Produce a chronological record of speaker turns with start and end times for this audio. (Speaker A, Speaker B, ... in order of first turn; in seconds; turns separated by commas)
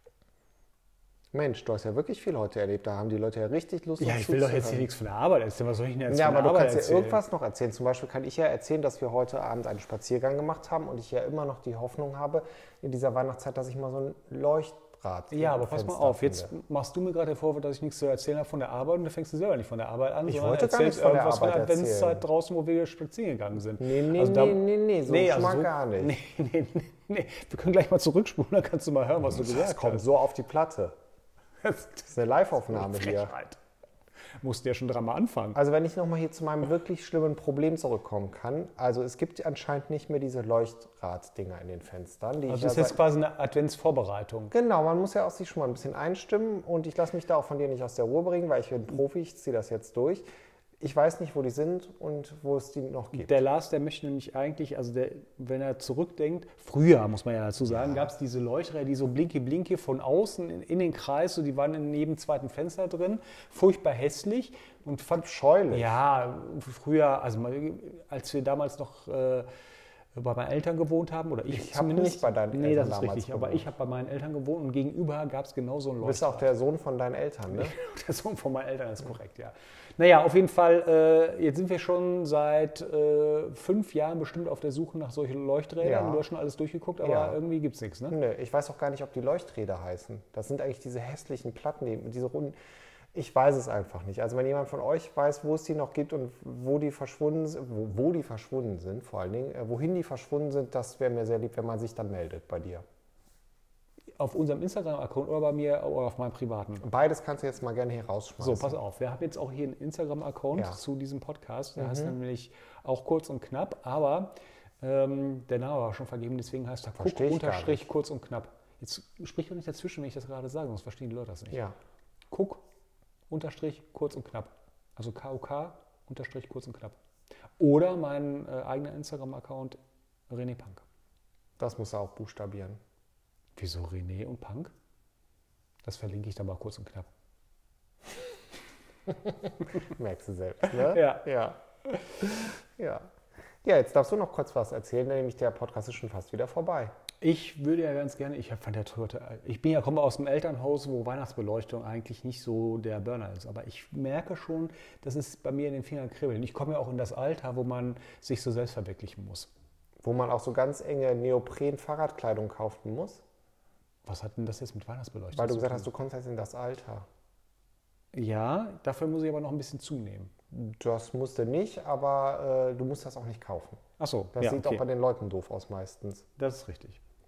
Speaker A: 1.3-4.9, Speaker B: 4.0-7.2, Speaker A: 6.1-16.5, Speaker B: 15.3-30.1, Speaker A: 20.2-22.2, Speaker A: 23.8-26.2, Speaker A: 29.2-30.9, Speaker B: 31.6-33.6, Speaker A: 32.1-33.3, Speaker B: 34.4-35.6, Speaker A: 35.5-43.0, Speaker B: 42.5-44.5, Speaker A: 44.5-50.2, Speaker A: 50.8-53.4, Speaker B: 53.1-69.5, Speaker A: 57.7-58.1, Speaker A: 65.1-66.0, Speaker B: 70.1-76.5, Speaker A: 71.5-73.7, Speaker A: 76.0-77.7, Speaker B: 77.5-88.2, Speaker A: 85.8-86.2, Speaker A: 87.0-87.4, Speaker A: 88.1-92.5, Speaker A: 93.1-102.8, Speaker B: 104.2-106.8, Speaker A: 106.8-108.8, Speaker B: 108.4-121.6, Speaker A: 110.5-110.8, Speaker A: 111.8-112.2, Speaker A: 116.9-117.9, Speaker B: 122.3-122.6, Speaker B: 123.3-127.0, Speaker B: 127.6-129.8, Speaker B: 130.3-130.8, Speaker A: 131.6-132.8, Speaker B: 133.6-134.7, Speaker B: 135.8-137.1, Speaker A: 139.7-141.6, Speaker B: 140.8-141.2, Speaker A: 142.3-143.1, Speaker A: 143.6-146.9, Speaker B: 147.2-159.5, Speaker A: 160.0-163.2, Speaker B: 164.0-165.9, Speaker A: 165.3-167.1, Speaker B: 168.1-170.3, Speaker A: 170.5-173.8, Speaker B: 174.0-174.8, Speaker A: 174.3-176.2, Speaker B: 176.4-177.0